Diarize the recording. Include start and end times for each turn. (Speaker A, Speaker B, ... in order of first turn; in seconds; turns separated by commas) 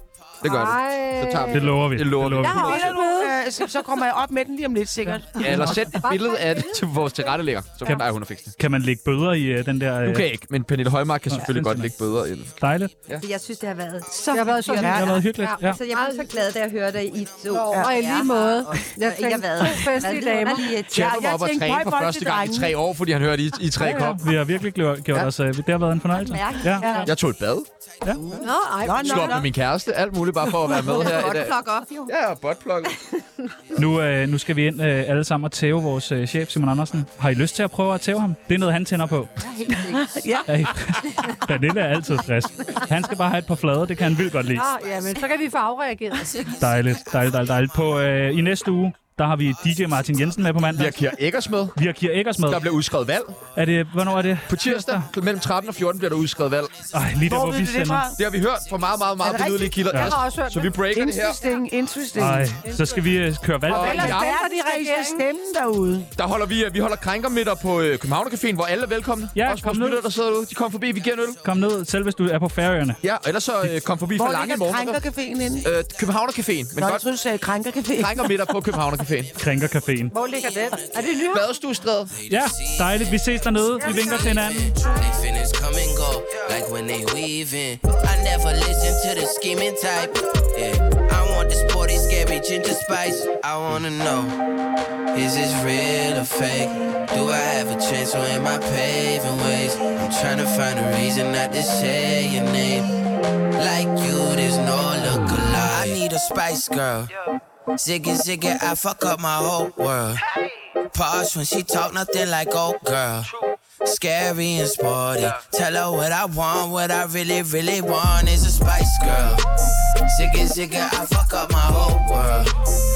Speaker A: 0.4-2.7, Speaker B: 0.4-1.8, Speaker C: 1.5-3.0, Speaker B: 2.4-3.4, Speaker D: 2.5-5.8, Speaker C: 5.3-5.8, Speaker A: 5.3-8.6, Speaker B: 5.6-6.8, Speaker C: 8.6-10.3, Speaker A: 10.0-13.3, Speaker C: 11.3-11.9, Speaker C: 12.6-12.9, Speaker E: 13.2-21.2, Speaker D: 14.2-15.2, Speaker B: 14.3-16.3, Speaker C: 14.8-15.8, Speaker D: 17.6-18.1, Speaker B: 17.7-20.8, Speaker A: 20.9-24.2, Speaker D: 20.9-22.8, Speaker C: 23.8-27.1, Speaker E: 26.1-27.1, Speaker D: 26.8-27.1, Speaker A: 27.0-28.3, Speaker F: 28.1-28.5, Speaker B: 28.4-29.4, Speaker D: 28.8-29.5, Speaker A: 29.0-33.0, Speaker E: 30.7-32.2, Speaker E: 32.9-33.5, Speaker C: 33.8-39.3, Speaker E: 39.4-40.3, Speaker D: 39.8-40.5, Speaker C: 40.5-44.7, Speaker B: 44.5-46.4, Speaker F: 44.7-45.2, Speaker F: 46.3-47.8, Speaker C: 46.6-51.0, Speaker A: 50.7-51.8, Speaker C: 51.8-52.7, Speaker A: 52.4-53.5, Speaker C: 53.5-55.1, Speaker A: 54.5-56.9, Speaker F: 56.7-57.1, Speaker C: 56.9-58.1, Speaker D: 57.2-58.2, Speaker A: 58.1-61.4, Speaker F: 58.7-59.8, Speaker D: 59.2-59.8, Speaker C: 59.9-60.2, Speaker B: 59.9-60.8, Speaker D: 60.8-62.7, Speaker C: 62.2-64.1, Speaker B: 62.6-62.9, Speaker D: 63.7-66.1, Speaker A: 63.7-64.3, Speaker B: 63.7-65.3, Speaker A: 66.1-71.4, Speaker C: 69.3-70.0, Speaker C: 71.4-73.0, Speaker A: 73.0-75.0, Speaker D: 74.1-75.7, Speaker A: 75.6-77.1, Speaker D: 76.8-78.4, Speaker A: 78.0-79.3, Speaker F: 79.3-81.3, Speaker C: 79.4-80.1, Speaker B: 80.1-81.5, Speaker A: 81.3-82.1, Speaker F: 82.1-94.4, Speaker C: 82.3-84.7, Speaker F: 95.1-103.0, Speaker F: 103.6-107.1, Speaker A: 105.6-105.9, Speaker F: 107.8-110.2, Speaker F: 110.9-113.3, Speaker F: 113.8-119.5, Speaker F: 120.1-122.6